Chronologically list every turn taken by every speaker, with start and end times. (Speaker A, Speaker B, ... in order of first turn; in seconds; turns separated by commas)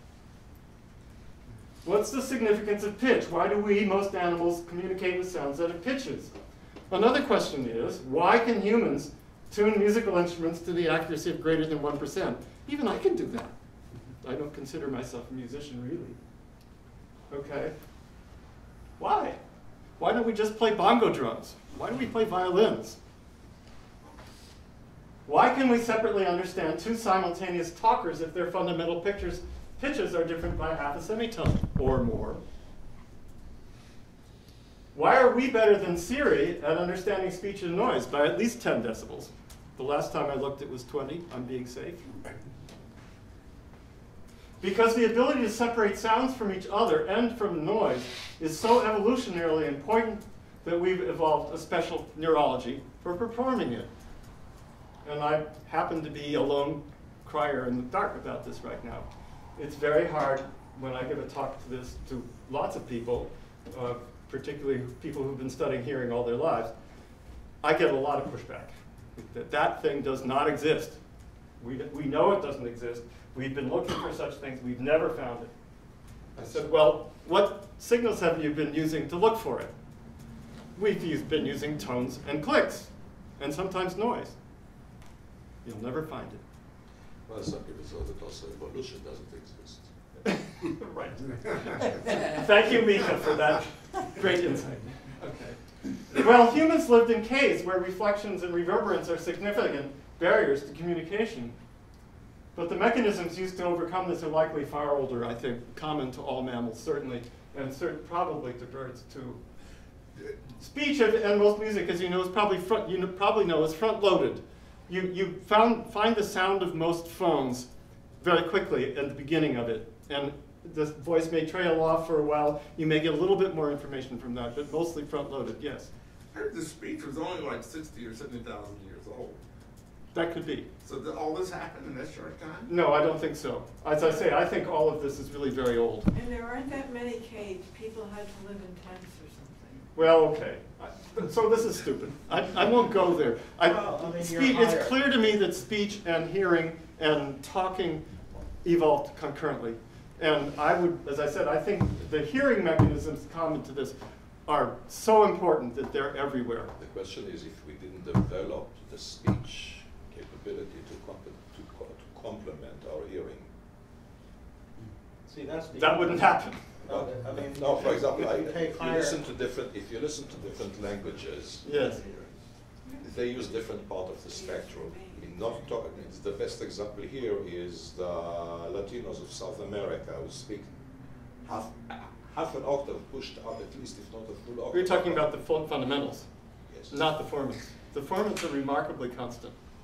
Speaker A: 1.8-6.3, Speaker A: 6.9-13.5, Speaker A: 14.2-16.2, Speaker A: 17.3-17.7, Speaker A: 19.0-19.4, Speaker A: 20.0-23.0, Speaker A: 25.2-32.4, Speaker A: 34.9-42.1, Speaker A: 44.6-53.9, Speaker A: 55.0-66.7, Speaker A: 67.6-71.0, Speaker A: 71.6-75.5, Speaker A: 76.3-79.7, Speaker A: 80.8-84.3, Speaker A: 85.6-86.4, Speaker B: 87.3-89.9, Speaker A: 90.2-101.5, Speaker A: 102.5-109.4, Speaker A: 110.6-117.7, Speaker A: 118.2-125.9, Speaker C: 126.3-129.4, Speaker A: 130.1-130.7, Speaker C: 130.8-132.7, Speaker A: 132.7-136.1, Speaker D: 136.1-139.9, Speaker A: 139.9-148.0, Speaker E: 143.6-145.0, Speaker A: 148.6-156.7, Speaker B: 156.7-163.5, Speaker E: 165.2-169.2, Speaker A: 165.8-166.7, Speaker B: 166.9-172.3, Speaker A: 171.6-172.1, Speaker D: 172.8-173.1, Speaker B: 173.0-180.7, Speaker D: 174.2-175.5, Speaker B: 181.4-185.3, Speaker A: 184.7-186.3, Speaker B: 186.7-186.9, Speaker A: 186.9-189.5